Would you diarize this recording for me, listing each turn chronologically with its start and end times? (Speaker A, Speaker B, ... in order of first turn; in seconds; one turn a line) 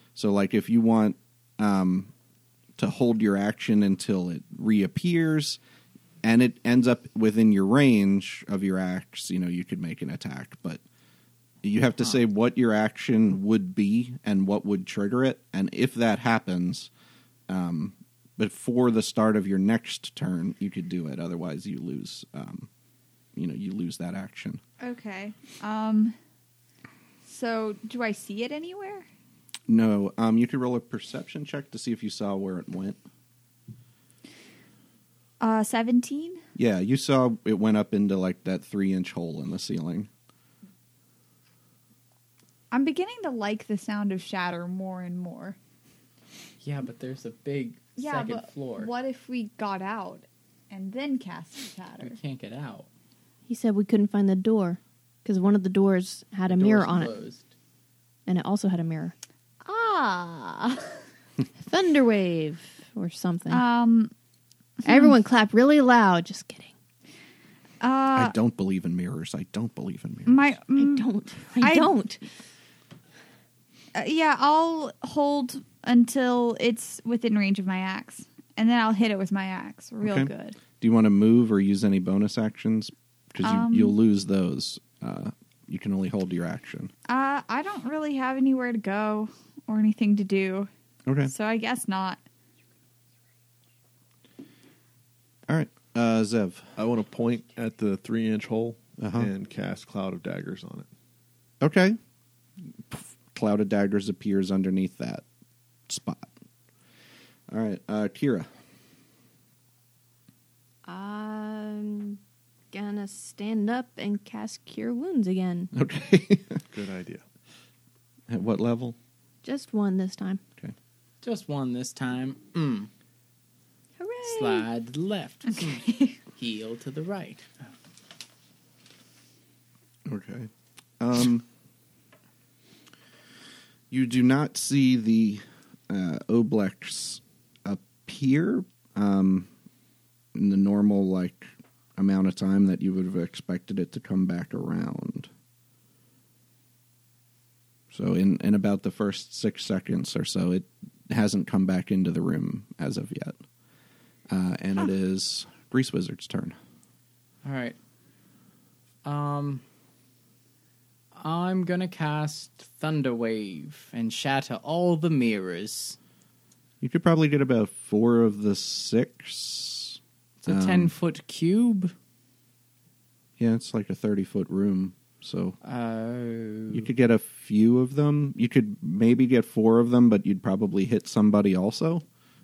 Speaker A: 0.1-2.1
Speaker A: 2.8-5.6
Speaker A: 6.2-10.8
Speaker A: 11.6-16.9
Speaker A: 17.5-22.7
Speaker A: 23.4-24.6
Speaker B: 24.8-26.1
Speaker B: 27.2-29.1
Speaker A: 29.7-33.0
Speaker B: 35.4-36.4
Speaker A: 36.6-40.1
Speaker B: 42.7-45.6
Speaker C: 46.6-48.9
Speaker B: 48.0-52.2
Speaker C: 52.0-52.9
Speaker D: 53.5-57.1
Speaker C: 56.5-57.5
Speaker D: 58.3-59.1
Speaker B: 59.7-60.7
Speaker D: 61.6-63.6
Speaker B: 63.5-64.1
Speaker D: 64.8-66.7
Speaker B: 67.8-68.3
Speaker A: 68.2-70.6
Speaker B: 70.3-71.0
Speaker D: 70.8-72.2
Speaker B: 71.6-71.9
Speaker B: 74.0-80.6
Speaker A: 80.0-86.9
Speaker B: 83.4-83.9
Speaker B: 87.1-90.7
Speaker A: 91.1-91.3
Speaker B: 91.3-92.2
Speaker A: 95.5-96.8
Speaker E: 96.8-100.9
Speaker A: 99.0-99.3
Speaker A: 101.6-102.0
Speaker A: 102.9-105.2
Speaker A: 105.9-106.3
Speaker A: 107.5-108.5
Speaker D: 110.9-112.2
Speaker D: 112.7-115.7
Speaker A: 115.7-116.6
Speaker E: 116.7-117.2
Speaker A: 118.3-119.0
Speaker D: 119.4-120.4
Speaker C: 121.2-122.9
Speaker D: 124.0-124.5
Speaker C: 124.2-127.5
Speaker B: 125.5-126.2
Speaker A: 130.1-131.4
Speaker A: 133.9-139.5
Speaker A: 140.3-145.3
Speaker A: 147.9-153.4
Speaker A: 154.3-156.6
Speaker C: 157.4-157.8
Speaker C: 159.0-159.6
Speaker C: 161.2-166.0
Speaker A: 166.8-170.9
Speaker C: 170.4-171.9
Speaker A: 173.4-175.6
Speaker C: 175.6-176.9
Speaker A: 176.7-182.0